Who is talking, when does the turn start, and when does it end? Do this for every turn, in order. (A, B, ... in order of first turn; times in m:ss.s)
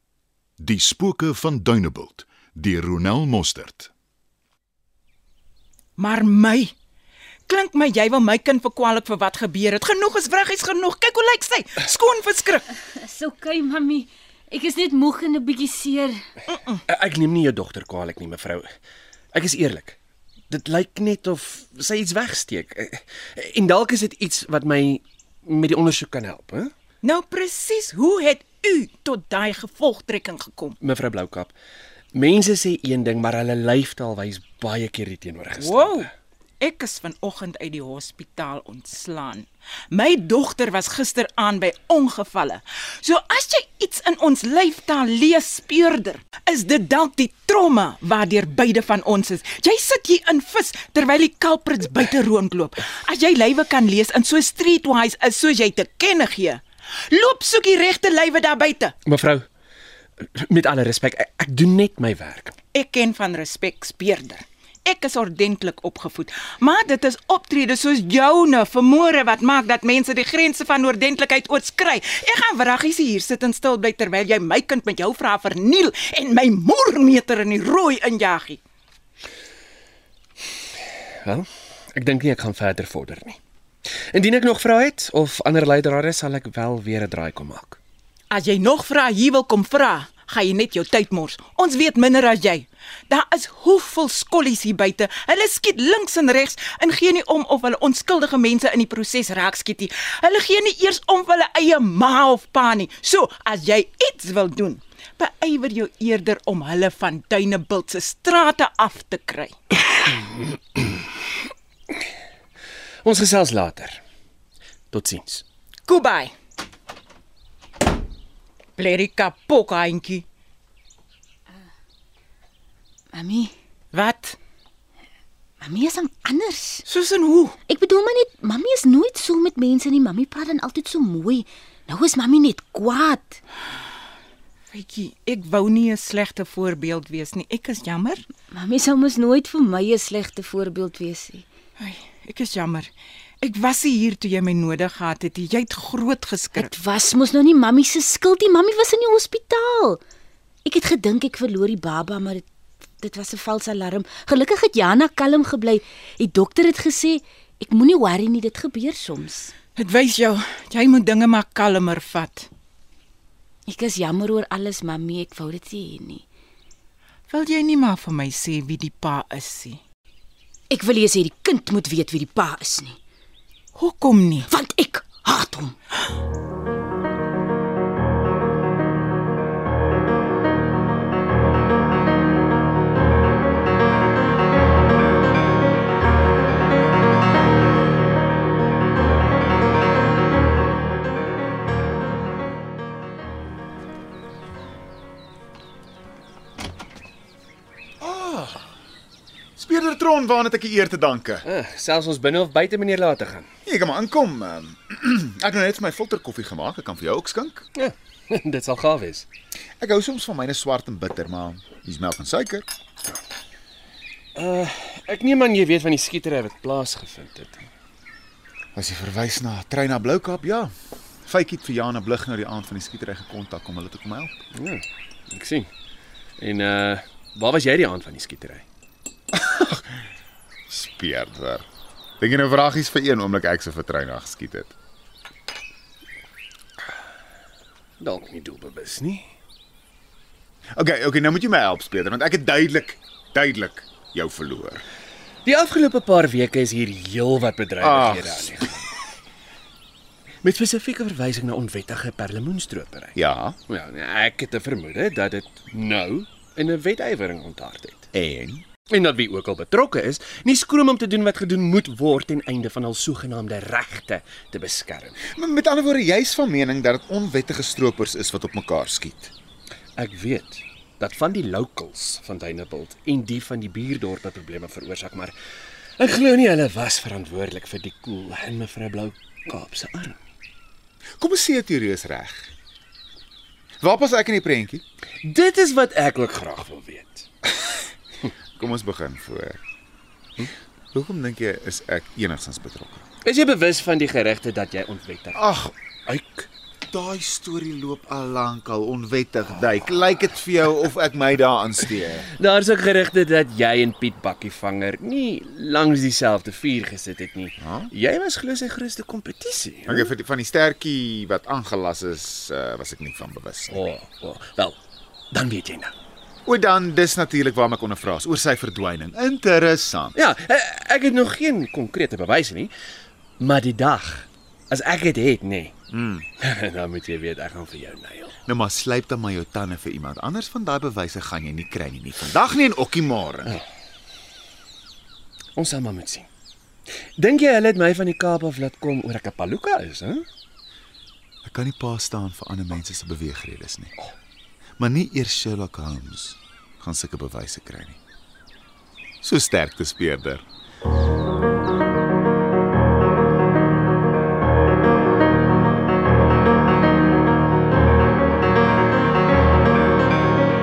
0:00.6-0:03.9 A
0:06.0-0:06.7 B
0:07.5-0:12.6 B
0:12.8-0:16.2 C
0:16.5-0:16.8 B
0:16.9-0:18.6 D
0:19.3-0:20.0 D
0:20.5-0:26.7 D
0:27.0-0:30.8 B
0:30.8-0:31.5 D
0:32.1-0:36.1 D
0:35.6-0:36.1 B
0:36.6-0:58.9 B
0:59.1-0:59.4 D
1:00.4-1:02.6 D
1:02.7-1:18.6 B
1:21.2-1:23.4 D
1:24.1-1:27.8 D
1:28.3-1:49.5 B
1:53.0-1:54.0 D
1:54.9-1:55.4 D
1:55.9-1:56.3 B
1:58.8-2:00.2 B
2:03.1-2:03.5 C
2:03.9-2:04.4 B
2:05.6-2:06.9 C
2:06.9-2:07.5 B
2:07.7-2:13.4 C
2:14.7-2:18.2 B
2:18.5-2:21.5 C
2:21.8-2:22.9 B
2:23.4-2:26.7 B
2:26.5-2:30.0 C
2:30.6-2:32.4 C
2:33.0-2:39.5 C
2:39.8-2:42.5 B
2:43.7-2:46.2 C
2:47.3-2:49.8 B
2:50.7-2:53.0 C
2:53.8-2:54.4 B
2:54.4-2:55.8 C
3:18.0-3:18.6 E
3:19.6-3:21.5 E
3:21.4-3:23.5 D
3:23.7-3:27.6 E
3:27.8-3:29.3 D
3:29.8-3:32.7 E
3:34.4-3:37.7 D
3:38.8-3:40.7 E
3:41.2-3:44.4 E
3:44.5-3:45.7 D
3:46.4-3:48.6 D
3:49.3-3:49.9 E
3:50.7-3:51.6 E
3:52.2-3:54.7 E
3:58.0-3:59.2 D
4:00.8-4:04.8 E
4:05.4-4:08.8 D
4:07.8-4:08.8 E
4:10.4-4:13.2 D
4:13.2-4:13.6 E
4:13.7-4:18.1 D
4:18.1-4:18.6 E
4:18.9-4:25.2 D
4:25.2-4:29.3 E
4:30.0-4:35.3 D
4:36.0-4:40.2 D
4:41.2-4:42.5 E
4:43.8-4:44.8 E
4:45.2-4:47.3 D
4:48.6-4:49.6 E
4:50.9-4:53.0 E
4:53.2-4:55.4 D
4:55.3-4:55.7 E
4:56.1-4:56.5 D
4:56.9-5:02.3 E
5:02.4-5:10.1 D
5:07.6-5:07.9 E
5:09.9-5:13.8 E
5:13.7-5:14.8 D
5:15.3-5:15.9 D
5:16.4-5:20.2 E
5:20.2-5:22.7 D
5:23.4-5:25.7 D
5:25.9-5:26.3 E
5:26.4-5:28.4 D
5:28.5-5:33.6 E
5:35.6-5:36.3 D
5:37.2-5:40.2 D
5:41.4-5:43.9 E
5:44.8-5:48.0 E
5:49.2-5:50.4 E